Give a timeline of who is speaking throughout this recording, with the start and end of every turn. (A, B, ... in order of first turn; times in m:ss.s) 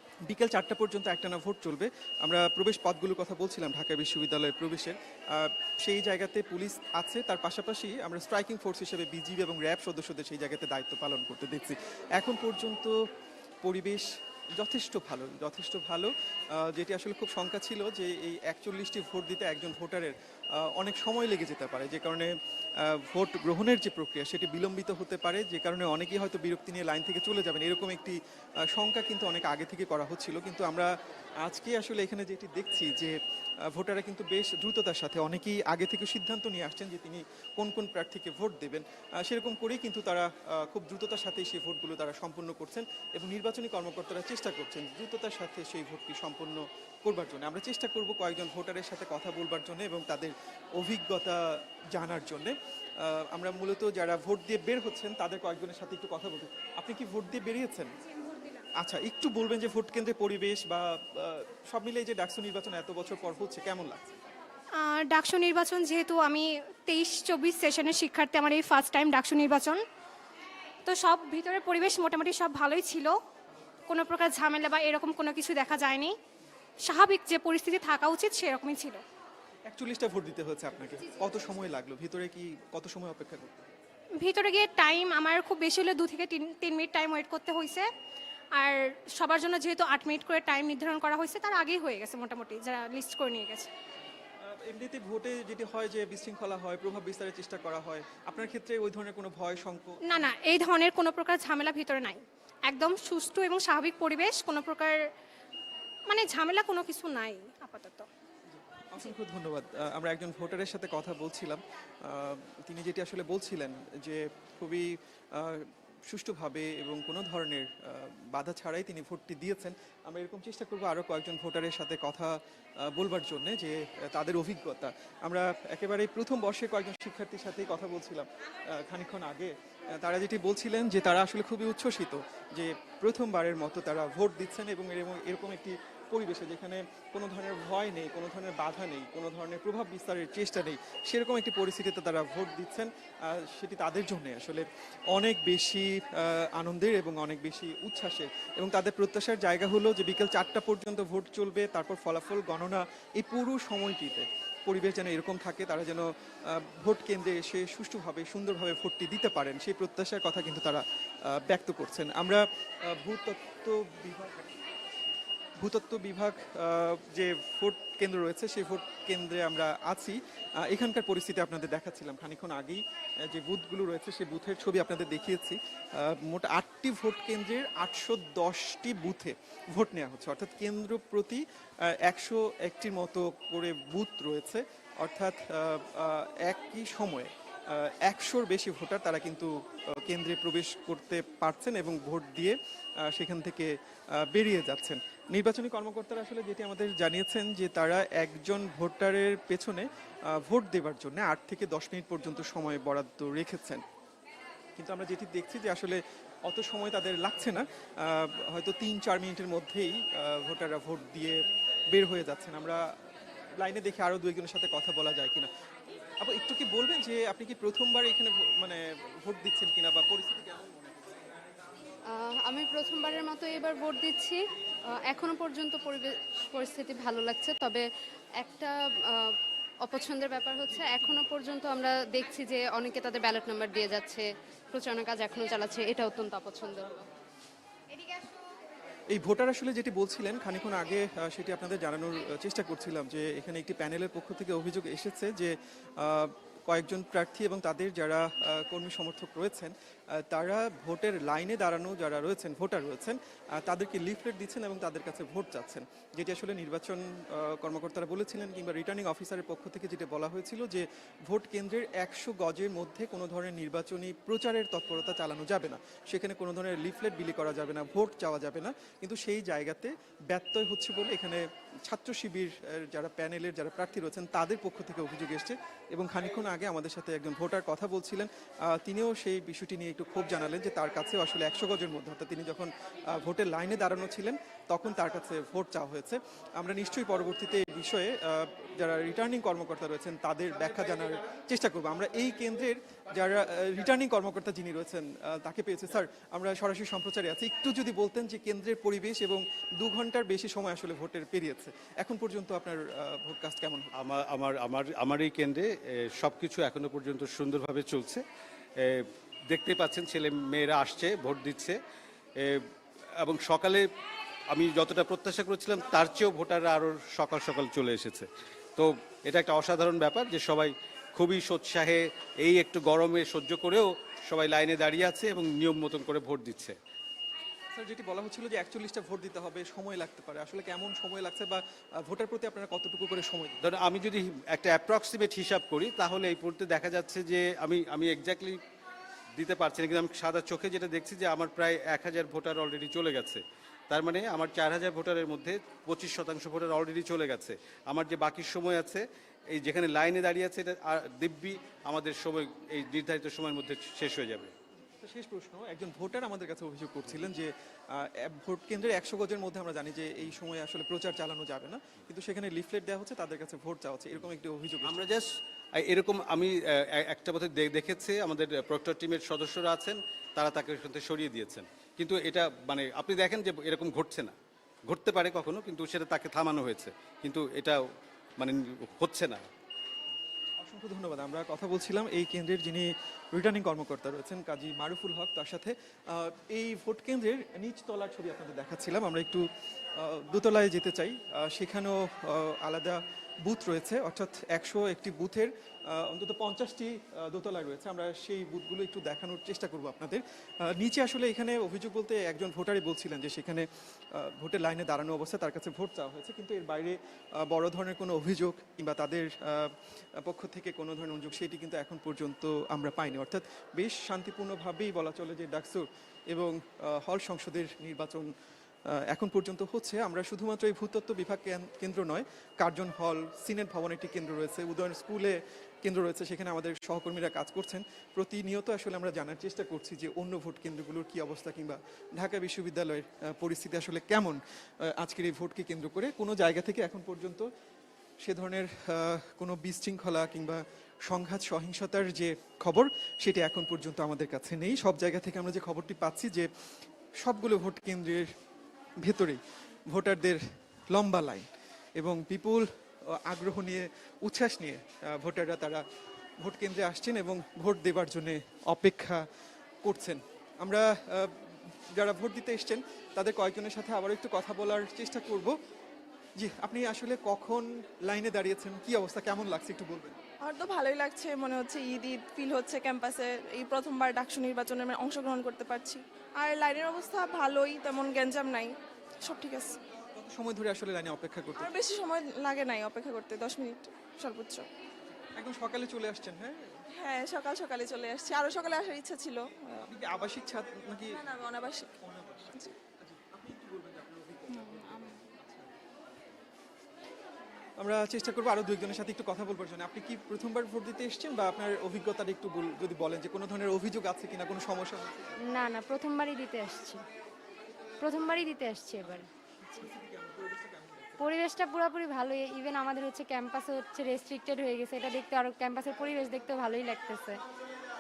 0:00.3-0:13.0 A
0:13.6-0:33.2 A
0:33.7-0:58.0 A
0:58.8-1:04.2 A
1:04.7-1:09.8 B
1:10.9-1:13.2 B
1:13.9-1:16.2 B
1:16.8-1:19.0 B
1:19.7-1:23.8 A
1:24.1-1:27.9 B
1:28.6-1:33.7 B
1:34.4-1:40.2 A
1:40.0-1:45.1 B
1:46.1-1:48.1 B
1:48.5-2:44.6 A
2:45.6-3:23.8 A
3:24.8-3:32.9 A
3:33.6-3:35.5 A
3:36.2-3:41.3 A
3:42.1-3:44.4 C
3:45.0-3:47.9 C
3:48.4-3:56.9 C
3:59.1-5:03.9 A
5:04.0-5:08.2 D
5:08.8-5:11.8 D
5:12.4-5:13.9 D
5:14.5-5:26.8 D
5:27.8-5:33.6 A
5:33.6-5:38.6 D
5:39.4-5:54.5 D
5:55.0-6:05.0 A
6:04.8-6:14.4 D
6:14.9-6:19.5 D
6:20.6-6:58.3 A
6:58.9-7:17.5 A
7:18.2-7:26.5 A
7:27.2-7:28.3 A
7:29.0-7:35.8 A
7:36.4-7:39.2 A
7:39.8-7:45.6 A
7:46.4-7:50.2 A
7:50.4-7:59.8 E
8:00.2-8:01.7 A
8:01.6-8:04.7 E
8:05.3-8:06.8 A
8:07.0-8:09.8 E
8:09.8-8:11.3 A
8:11.1-8:12.0 E
8:12.0-8:15.7 A
8:17.8-8:25.3 A
8:25.5-8:27.0 F
8:28.0-8:29.3 F
8:29.1-8:31.3 A
8:31.2-8:37.4 F